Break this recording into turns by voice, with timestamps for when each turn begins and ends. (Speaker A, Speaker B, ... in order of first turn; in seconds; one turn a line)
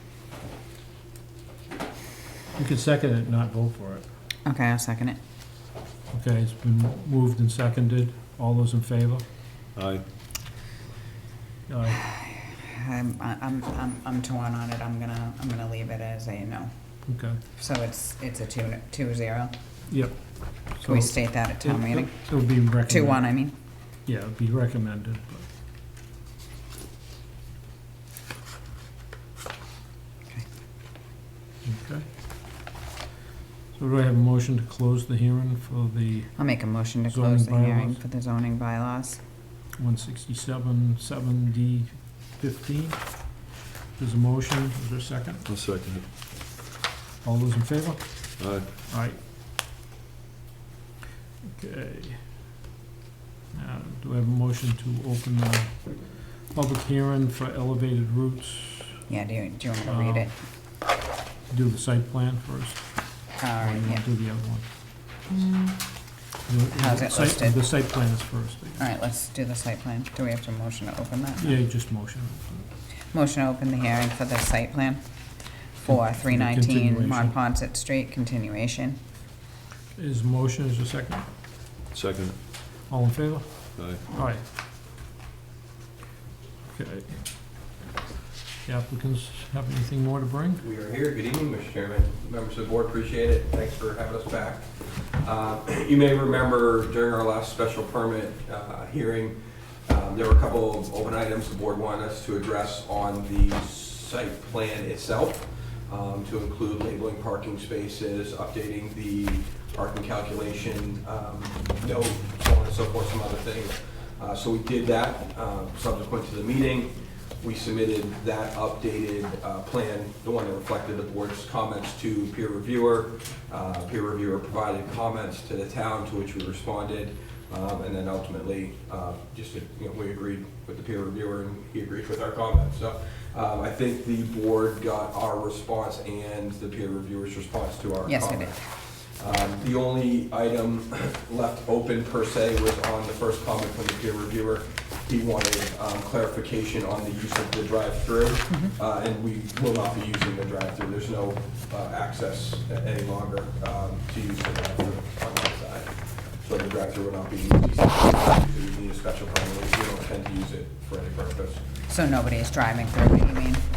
Speaker A: 2.5-4.0
Speaker B: 4.5-5.2
Speaker A: 6.1-9.2
Speaker C: 9.7-10.0
Speaker A: 11.7-12.1
Speaker B: 12.5-16.7
Speaker A: 17.1-17.4
Speaker B: 17.6-19.5
Speaker A: 19.9-23.3
Speaker B: 20.8-23.5
Speaker A: 24.1-25.4
Speaker A: 31.6-32.0
Speaker A: 33.7-38.0
Speaker B: 36.4-39.2
Speaker A: 39.8-43.4
Speaker A: 44.0-45.4
Speaker C: 45.4-46.1
Speaker A: 47.2-49.2
Speaker C: 48.4-48.7
Speaker A: 51.5-52.3
Speaker A: 53.5-59.0
Speaker B: 59.1-60.3
Speaker A: 59.8-60.3
Speaker A: 61.5-64.6
Speaker B: 63.4-64.0
Speaker B: 65.3-65.7
Speaker A: 66.5-68.8
Speaker B: 66.7-67.7
Speaker B: 68.8-71.5
Speaker A: 71.4-72.7
Speaker B: 73.1-75.0
Speaker B: 75.8-79.0
Speaker A: 75.8-77.3
Speaker A: 79.9-81.2
Speaker C: 81.9-82.4
Speaker A: 82.9-84.4
Speaker C: 83.7-84.0
Speaker A: 86.7-87.2
Speaker A: 88.6-90.6
Speaker D: 90.6-99.3
Speaker D: 99.9-161.6
Speaker B: 138.1-138.6
Speaker B: 161.9-163.6